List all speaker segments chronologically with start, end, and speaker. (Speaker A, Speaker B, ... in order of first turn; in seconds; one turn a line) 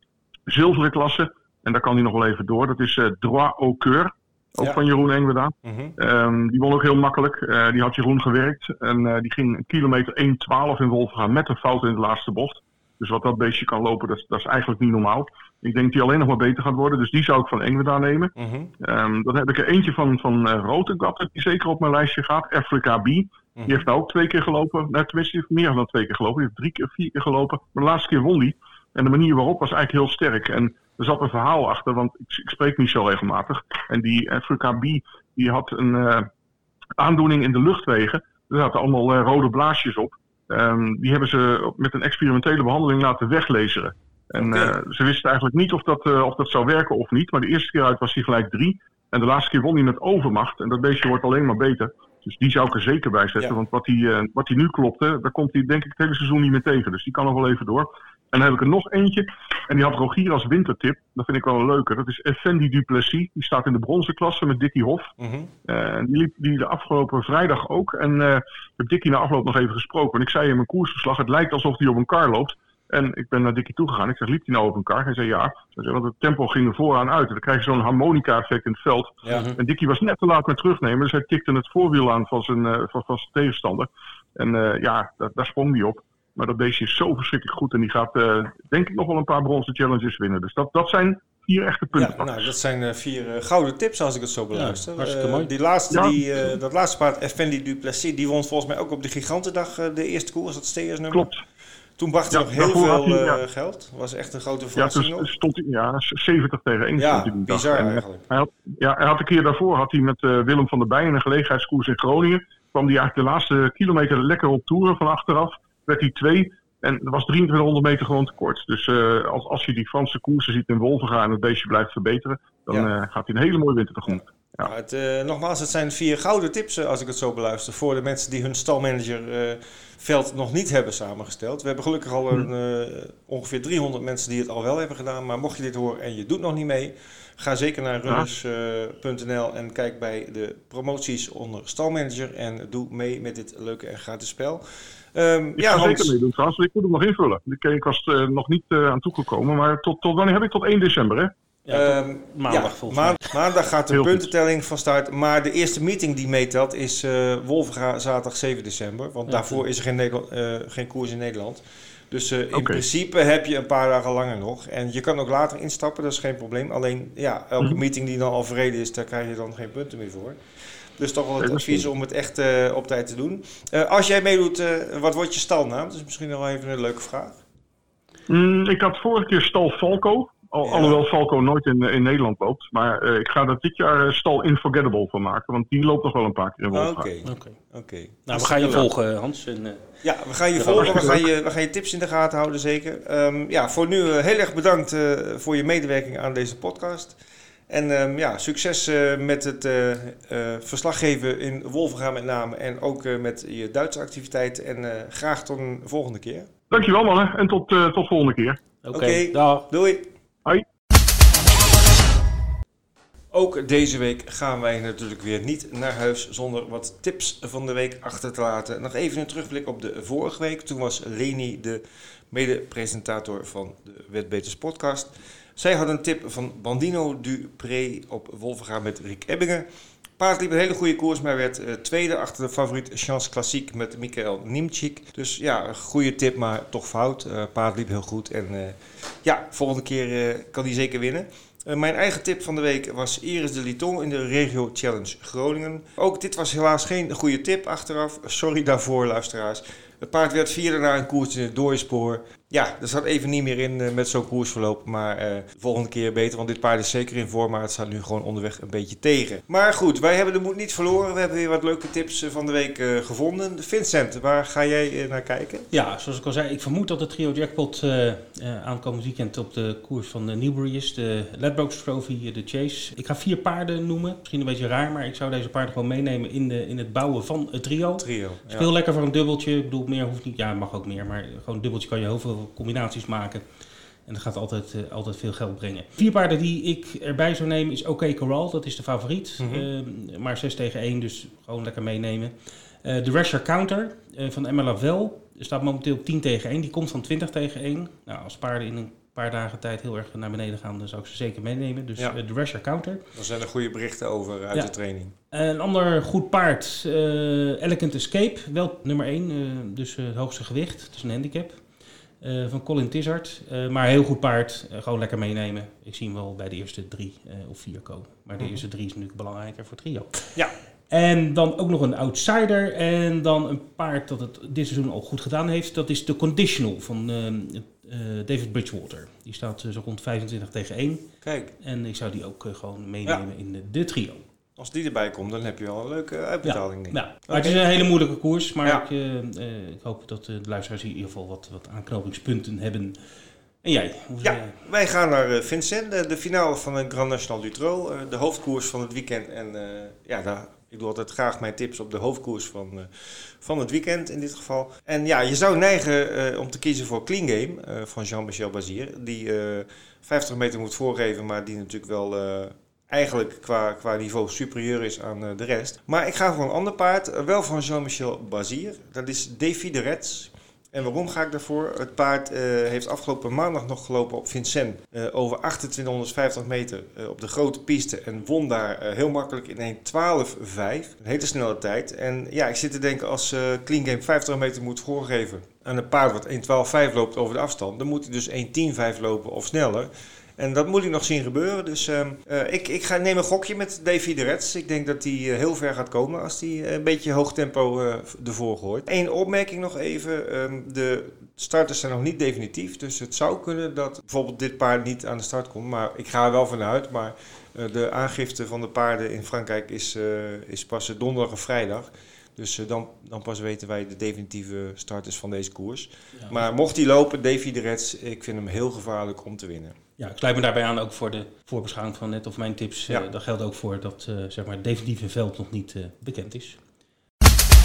Speaker A: 0.5-36.3
Speaker B: 5.6-5.9
Speaker B: 18.4-18.7
Speaker B: 23.6-23.9
Speaker A: 37.0-65.1
Speaker B: 44.4-44.8
Speaker B: 65.2-65.5
Speaker A: 65.7-92.3
Speaker C: 79.3-79.5
Speaker B: 92.0-101.3
Speaker C: 94.5-95.5
Speaker A: 95.9-96.2
Speaker A: 101.1-101.4
Speaker B: 102.0-105.3
Speaker A: 102.3-103.4
Speaker A: 104.8-124.7
Speaker B: 107.0-108.2
Speaker B: 124.1-144.6
Speaker B: 145.1-146.1
Speaker A: 145.6-151.3
Speaker C: 151.7-153.4
Speaker B: 151.7-170.4
Speaker A: 153.9-154.2
Speaker C: 159.3-159.6
Speaker A: 162.5-162.8
Speaker B: 171.0-177.4
Speaker A: 171.4-171.9
Speaker A: 178.3-187.1
Speaker B: 180.6-181.0
Speaker B: 186.7-188.9
Speaker C: 187.2-187.6
Speaker C: 188.3-189.9
Speaker B: 190.0-197.2
Speaker C: 190.5-191.2
Speaker A: 190.8-191.2
Speaker B: 197.7-206.5
Speaker A: 206.7-208.6
Speaker C: 208.8-209.7
Speaker B: 208.9-210.1
Speaker B: 213.3-229.7
Speaker B: 230.2-265.7
Speaker C: 265.7-283.4
Speaker B: 278.0-278.7
Speaker C: 284.1-303.0
Speaker B: 289.4-289.7
Speaker B: 303.1-305.1
Speaker C: 305.3-311.6
Speaker C: 312.2-320.3
Speaker C: 320.9-331.1
Speaker B: 331.2-331.5
Speaker C: 331.6-334.2
Speaker B: 334.6-337.6
Speaker C: 336.4-343.0
Speaker C: 343.6-344.6
Speaker B: 344.2-419.8
Speaker C: 420.0-426.6